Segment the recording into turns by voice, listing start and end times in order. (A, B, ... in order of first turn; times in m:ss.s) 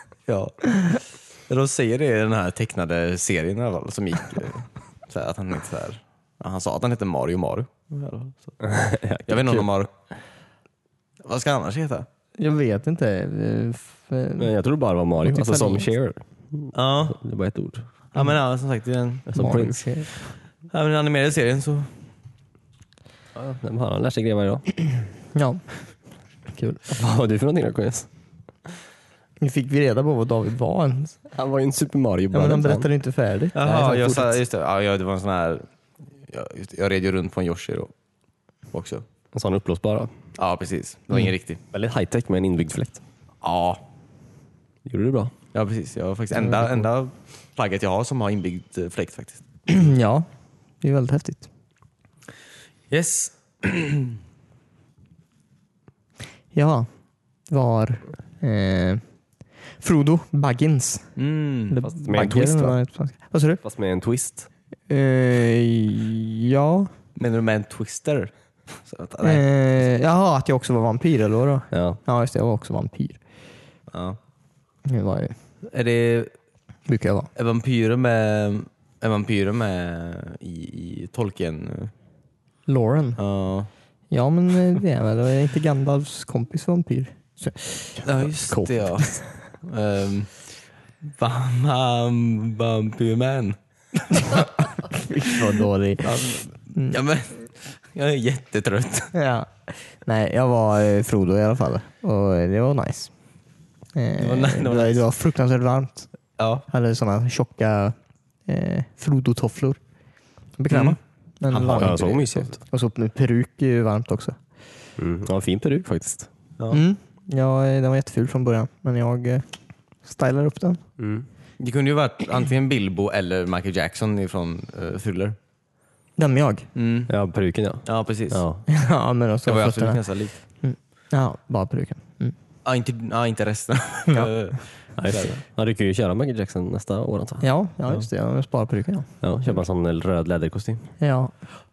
0:00.3-0:08.6 A
0:08.6-0:09.7 B
0:09.3-0:09.9 A
0:11.2-0:12.1 A
0:12.4-0:14.5 C
0:14.4-0:17.9 B
0:15.2-0:15.9 C
0:16.7-0:17.2 A
0:18.1-0:19.3 A
0:19.3-0:19.8 B
0:19.3-0:20.1 C
0:20.1-0:21.9 A
0:23.4-0:24.8 B
0:25.3-0:25.6 C
0:26.5-0:26.8 C
0:26.9-0:28.1 B
0:29.4-0:31.2 C
0:31.3-0:32.9 B
0:32.3-0:34.4 C
0:33.6-0:35.7 A
0:36.3-0:37.9 A
0:38.7-0:39.0 A
0:39.3-0:40.1 B
0:40.4-0:41.6 A
0:41.7-0:43.0 B
0:43.4-0:43.8 A
0:44.8-0:45.3 B
0:45.5-0:49.4 A
0:46.4-0:46.7 C
0:49.7-0:50.3 C
0:50.8-0:51.5 C
0:52.9-0:54.2 A
0:56.5-0:56.9 C
0:57.5-0:59.0 C
0:59.8-1:01.1 C
1:01.2-1:02.3 A
1:01.7-1:03.6 C
1:01.9-1:02.8 B
1:03.6-1:04.5 B
1:04.9-1:06.9 C
1:07.2-1:09.5 A
1:09.2-1:13.2 C
1:11.7-1:12.0 B
1:13.9-1:14.2 A
1:14.9-1:15.4 C
1:15.7-1:16.3 A
1:16.9-1:17.3 C
1:17.4-1:21.9 A
1:22.7-1:23.2 C
1:23.2-1:23.7 A
1:24.1-1:28.0 C
1:28.0-1:29.2 B
1:28.0-1:34.7 A
1:34.2-1:37.0 C
1:36.0-1:39.1 A
1:39.1-1:43.1 C
1:44.0-1:46.1 C
1:44.2-1:45.0 A
1:46.4-1:46.7 A
1:46.7-1:49.8 C
1:50.6-1:54.4 C
1:50.7-1:51.0 A
1:51.5-1:52.0 A
1:51.6-1:52.6 B
1:55.0-1:56.3 B
1:56.7-1:59.4 C
2:00.0-2:00.8 C
2:01.0-2:01.3 B
2:01.6-2:05.4 A
2:06.2-2:06.7 C
2:06.8-2:07.1 A
2:07.1-2:08.6 B
2:07.9-2:08.4 A
2:08.7-2:10.0 C
2:09.5-2:10.4 A
2:10.5-2:12.4 C
2:12.6-2:15.4 A
2:15.0-2:17.5 B
2:17.4-2:19.1 C
2:19.2-2:20.9 B
2:21.0-2:21.4 C